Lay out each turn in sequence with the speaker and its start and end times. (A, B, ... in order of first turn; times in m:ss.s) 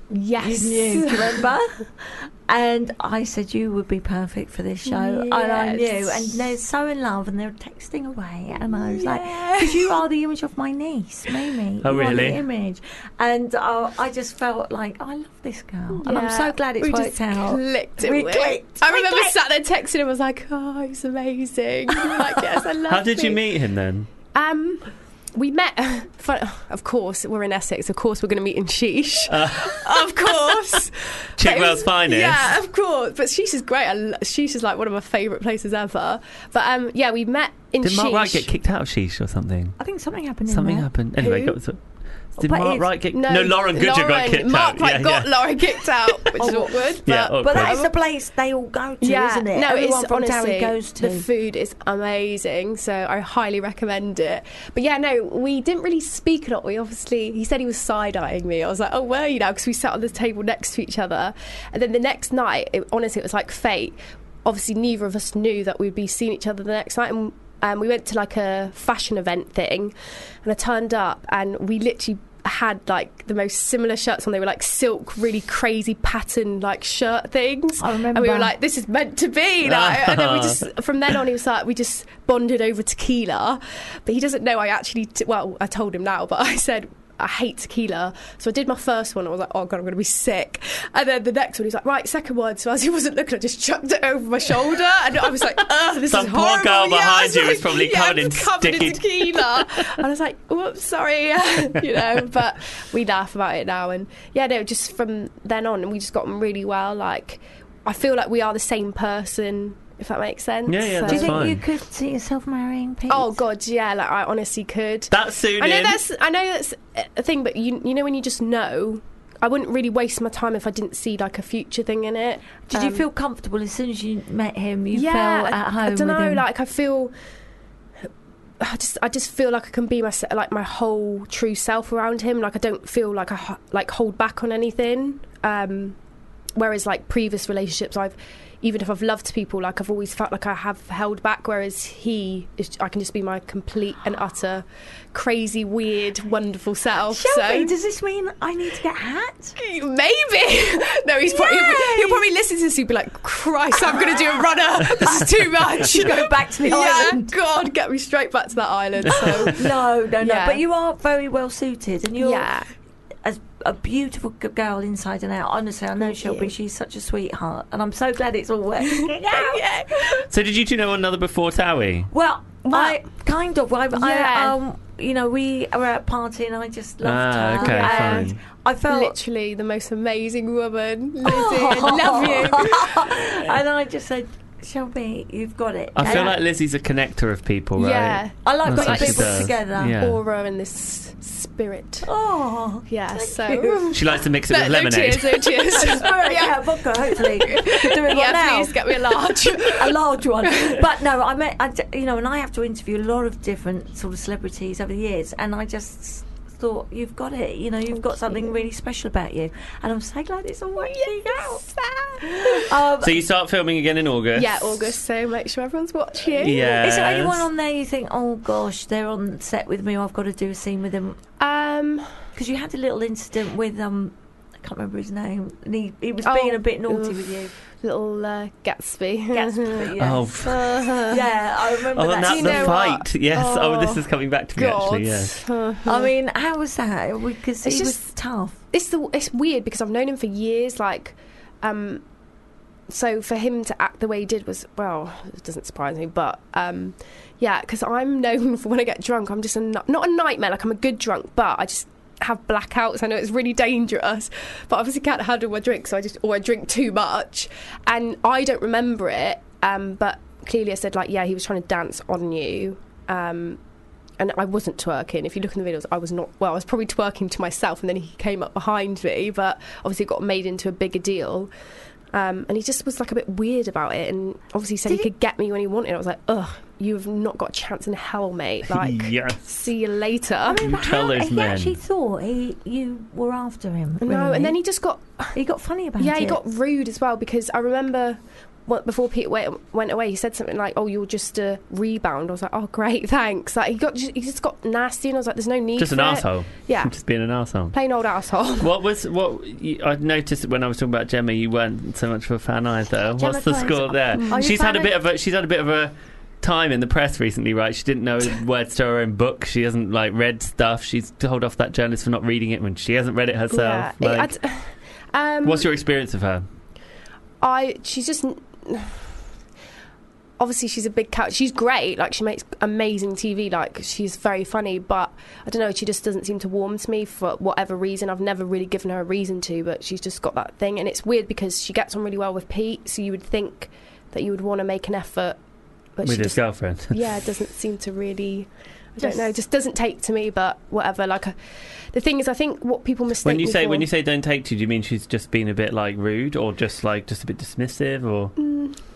0:00.1-0:01.5 A
0:00.4-0:19.4 B
0:04.9-0:06.4 A
0:08.8-0:09.9 A
0:11.8-0:12.4 C
0:16.0-0:23.4 A
0:22.9-0:24.1 C
0:24.3-0:38.5 A
0:29.3-0:30.8 C
0:31.4-0:32.5 C
0:37.8-0:39.8 C
0:39.8-0:41.3 B
0:40.5-0:41.8 C
0:41.2-0:41.5 A
0:42.3-0:45.7 C
0:42.4-0:42.8 B
0:42.4-0:47.9 A
0:46.3-0:46.5 C
0:46.4-0:46.7 B
0:47.0-0:47.8 C
0:47.4-0:51.3 B
0:49.0-1:51.4 A
1:17.8-1:18.6 B
1:19.6-1:20.6 C
1:36.1-1:40.0 C
1:50.7-1:51.6 C
1:51.1-1:53.4 B
1:53.1-2:03.1 A
1:55.1-1:56.0 C
2:02.7-2:06.4 B
2:04.9-2:07.1 A
2:08.6-2:16.0 A
2:16.6-2:27.7 A
2:27.1-2:29.6 B
2:29.6-2:40.6 A
2:31.3-2:32.3 B
2:33.9-2:37.4 B
2:39.2-2:42.5 B
2:42.2-2:42.7 A
2:43.2-2:49.7 B
2:46.0-2:46.5 A
2:48.8-2:50.3 A
2:50.3-2:52.1 C
2:52.1-2:59.2 B
2:52.6-2:53.0 A
2:53.9-2:54.6 A
2:57.0-2:58.4 C
2:57.6-3:03.4 A
3:01.2-3:06.4 B
3:06.0-3:10.2 C
3:06.0-3:06.4 A
3:07.8-3:12.1 A
3:08.4-3:10.0 B
3:12.0-3:14.0 B
3:12.9-3:20.8 A
3:13.9-3:15.6 C
3:15.7-3:31.6 B
3:28.3-3:28.6 A
3:30.9-3:32.7 A
3:32.2-3:33.2 B
3:33.0-3:35.0 C
3:34.4-3:36.8 A
3:36.4-3:37.5 C
3:36.8-3:41.2 B
3:41.4-3:42.1 A
3:42.4-3:47.6 B
3:46.2-3:51.3 A
3:49.3-3:52.9 B
3:50.0-3:50.8 C
3:52.0-3:55.4 C
3:52.2-3:56.1 A
3:55.8-3:58.6 B
3:57.6-3:58.1 A
3:58.7-4:02.0 A
4:02.9-4:23.6 A
4:24.2-4:31.5 A
4:32.1-4:40.6 A
4:38.7-4:39.7 C
4:40.4-4:44.6 B
4:40.6-4:41.8 C
4:44.0-4:45.3 A
4:45.4-4:46.4 B
4:46.0-4:56.9 A
4:55.8-4:57.8 C
4:57.7-4:58.7 A
4:58.6-5:14.3 C
5:03.2-5:04.9 B
5:04.2-5:04.7 A
5:13.5-5:15.7 A
5:15.4-5:16.5 C
5:17.4-5:19.0 A
5:20.4-5:35.4 A
5:36.0-5:41.4 A
5:36.0-5:37.0 C
5:41.9-5:43.9 A
5:43.2-5:48.4 C
5:48.4-5:48.8 A